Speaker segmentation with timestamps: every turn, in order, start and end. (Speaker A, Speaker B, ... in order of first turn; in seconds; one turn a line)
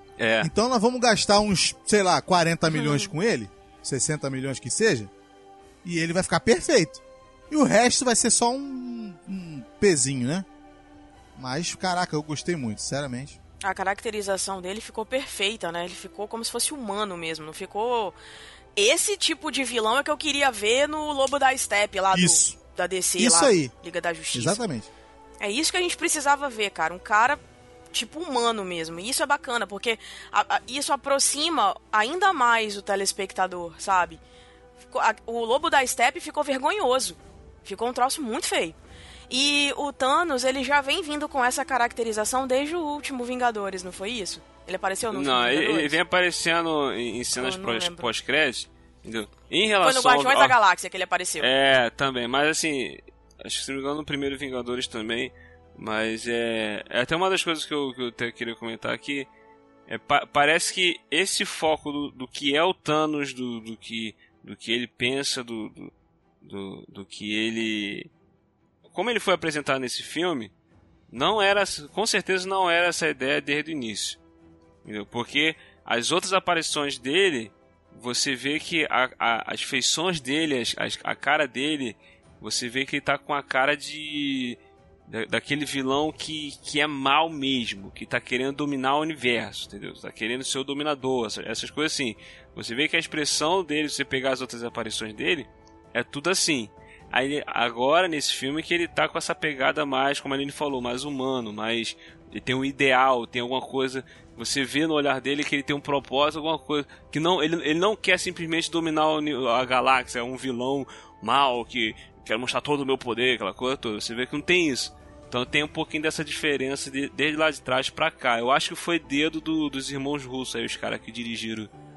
Speaker A: 0.2-0.5
Speaker B: 0.4-5.1
Speaker C: 2.7-3.1
Speaker B: 5.8-10.5
Speaker B: 11.3-13.4
Speaker C: 13.6-18.1
Speaker C: 18.8-24.6
Speaker B: 22.1-22.6
Speaker B: 23.2-23.7
Speaker B: 24.3-24.9
Speaker C: 25.4-27.4
Speaker C: 27.9-34.2
Speaker C: 34.9-38.8
Speaker C: 39.3-46.0
Speaker A: 45.1-50.5
Speaker C: 47.4-48.0
Speaker C: 49.8-51.5
Speaker A: 51.4-59.3
Speaker A: 59.9-65.9
Speaker A: 66.4-68.1
Speaker A: 68.9-70.5
Speaker A: 71.1-74.2
Speaker A: 74.8-121.7